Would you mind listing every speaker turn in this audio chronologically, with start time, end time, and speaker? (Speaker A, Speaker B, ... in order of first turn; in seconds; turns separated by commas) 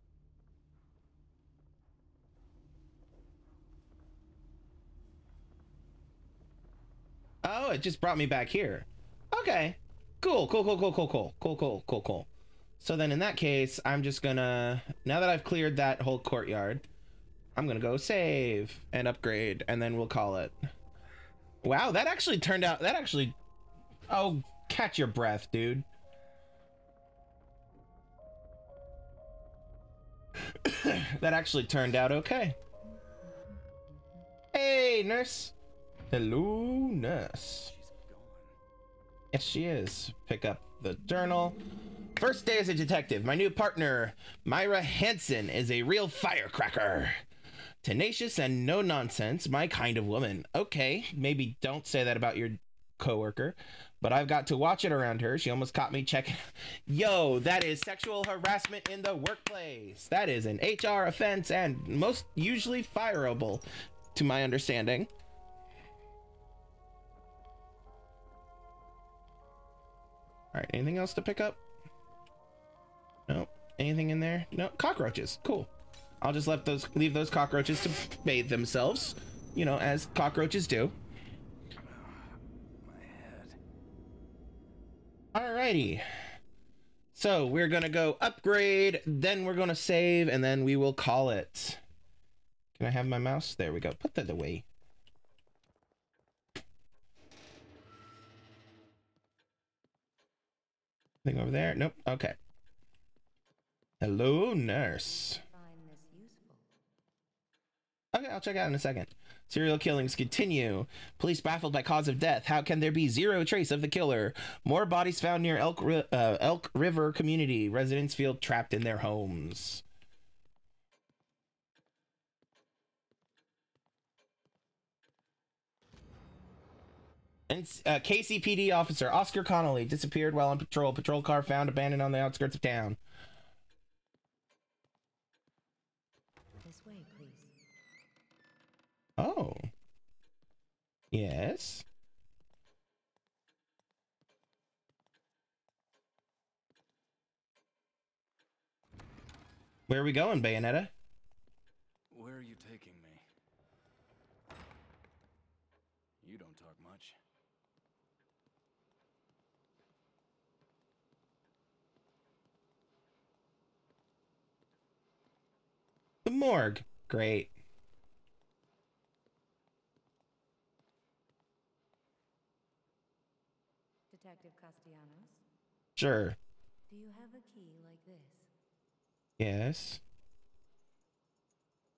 Speaker A: 7.4-12.3, Speaker A: 12.8-16.8, Speaker A: 17.6-20.6, Speaker A: 21.6-23.4, Speaker A: 24.1-25.9, Speaker A: 30.5-32.6, Speaker A: 34.5-35.5, Speaker A: 36.1-37.7, Speaker B: 37.6-38.6, Speaker A: 39.3-41.6, Speaker A: 42.2-47.2, Speaker A: 47.8-65.1, Speaker A: 70.5-71.6, Speaker A: 73.3-75.7, Speaker A: 76.2-81.0, Speaker B: 81.8-83.6, Speaker A: 85.3-86.1, Speaker A: 87.1-91.8, Speaker A: 92.8-94.7, Speaker A: 101.2-102.4, Speaker A: 104.0-105.4, Speaker C: 105.1-106.7, Speaker A: 108.1-119.8, Speaker A: 127.5-133.0, Speaker C: 136.6-137.5, Speaker A: 139.2-139.7, Speaker A: 141.1-141.9, Speaker A: 149.9-150.9, Speaker B: 152.1-153.2, Speaker B: 156.2-157.2, Speaker A: 166.2-167.5, Speaker C: 174.1-175.4, Speaker A: 176.0-176.4, Speaker C: 176.9-178.5, Speaker A: 179.4-180.0